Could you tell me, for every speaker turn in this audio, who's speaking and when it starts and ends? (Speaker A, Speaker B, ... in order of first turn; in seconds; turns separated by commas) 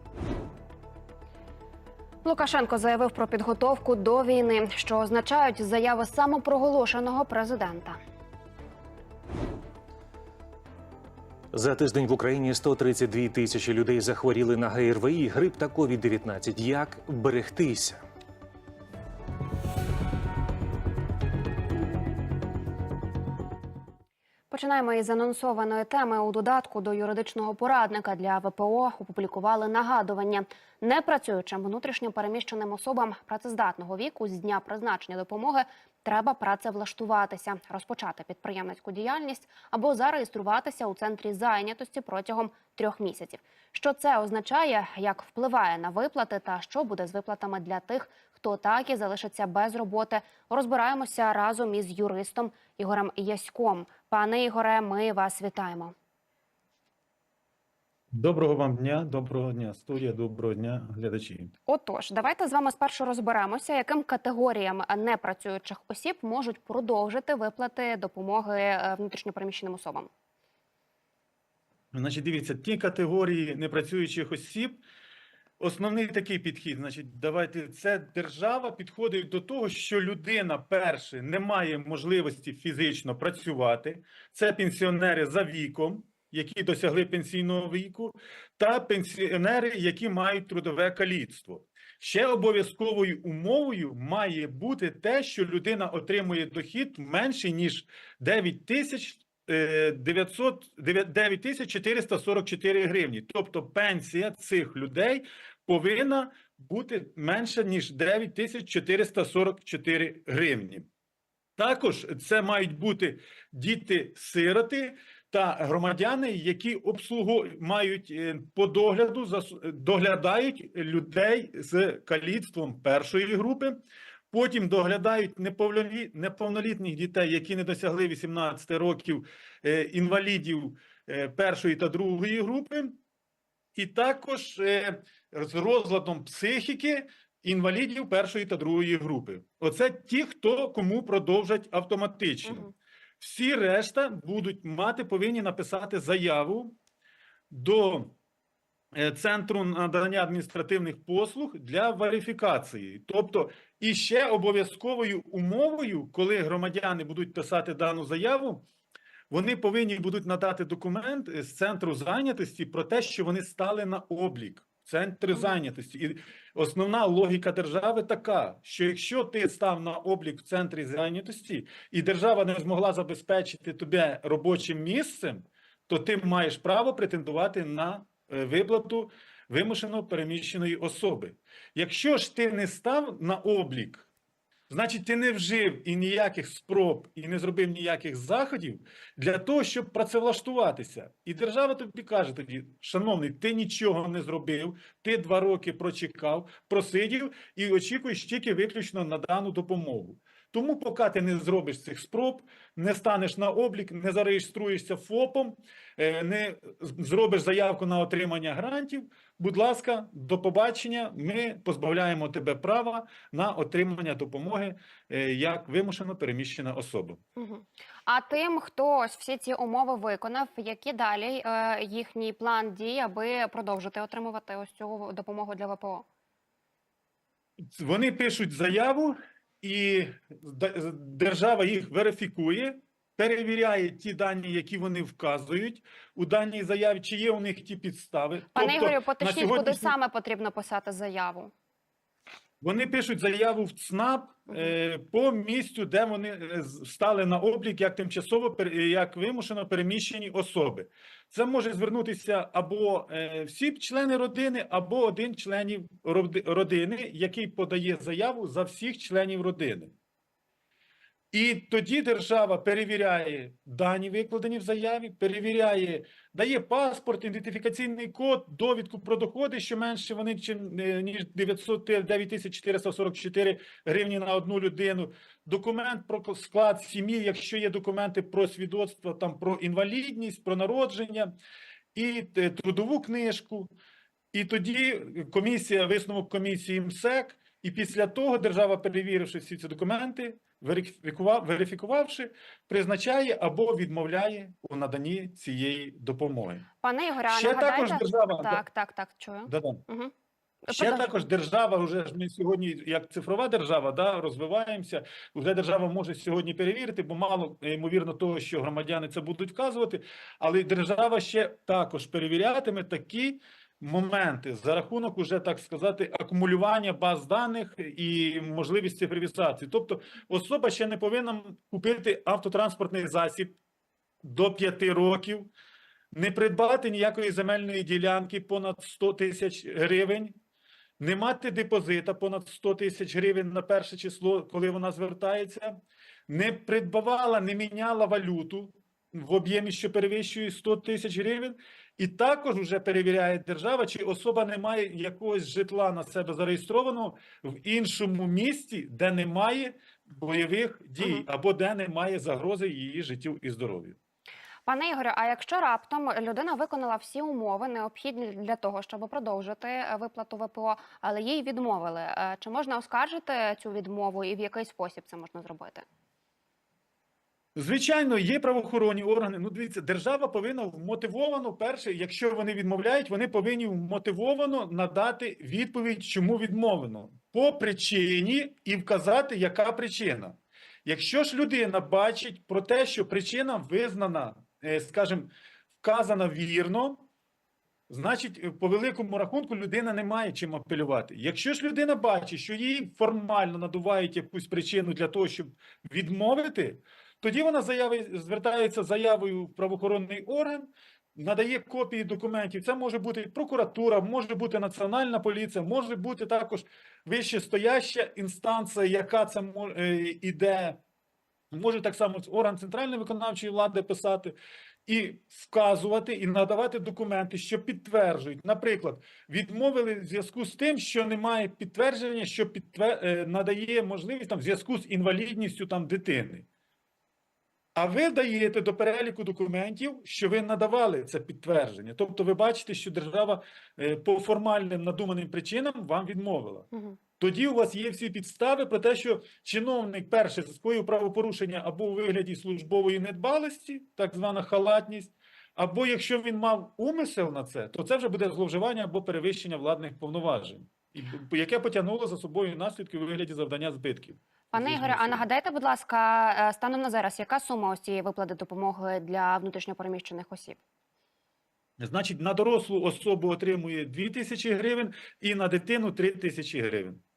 Speaker A: 2.2-8.0, Speaker B: 11.5-18.0, Speaker A: 24.5-55.9, Speaker C: 58.1-61.5, Speaker A: 61.7-70.1, Speaker C: 71.9-74.8, Speaker C: 75.6-110.9, Speaker C: 111.6-123.8, Speaker C: 124.3-133.0, Speaker C: 133.7-146.8, Speaker A: 142.4-142.7, Speaker C: 147.5-148.2, Speaker C: 148.9-158.7, Speaker C: 159.3-184.1, Speaker C: 184.7-217.2, Speaker A: 217.4-226.0, Speaker C: 227.7-239.9, Speaker A: 238.5-241.5, Speaker C: 242.6-259.9, Speaker C: 261.3-281.3, Speaker C: 281.9-283.7, Speaker C: 284.3-296.7, Speaker A: 296.8-300.1, Speaker C: 297.3-298.6, Speaker C: 299.5-299.8, Speaker A: 300.6-301.2, Speaker C: 300.7-323.6, Speaker C: 324.2-325.5, Speaker C: 326.1-330.4, Speaker C: 331.0-335.8, Speaker C: 336.3-354.0, Speaker A: 354.7-365.8, Speaker C: 367.6-387.1, Speaker C: 387.9-410.8, Speaker C: 411.5-414.4, Speaker C: 414.9-426.4, Speaker C: 427.7-455.2, Speaker A: 454.5-460.6, Speaker C: 461.8-467.0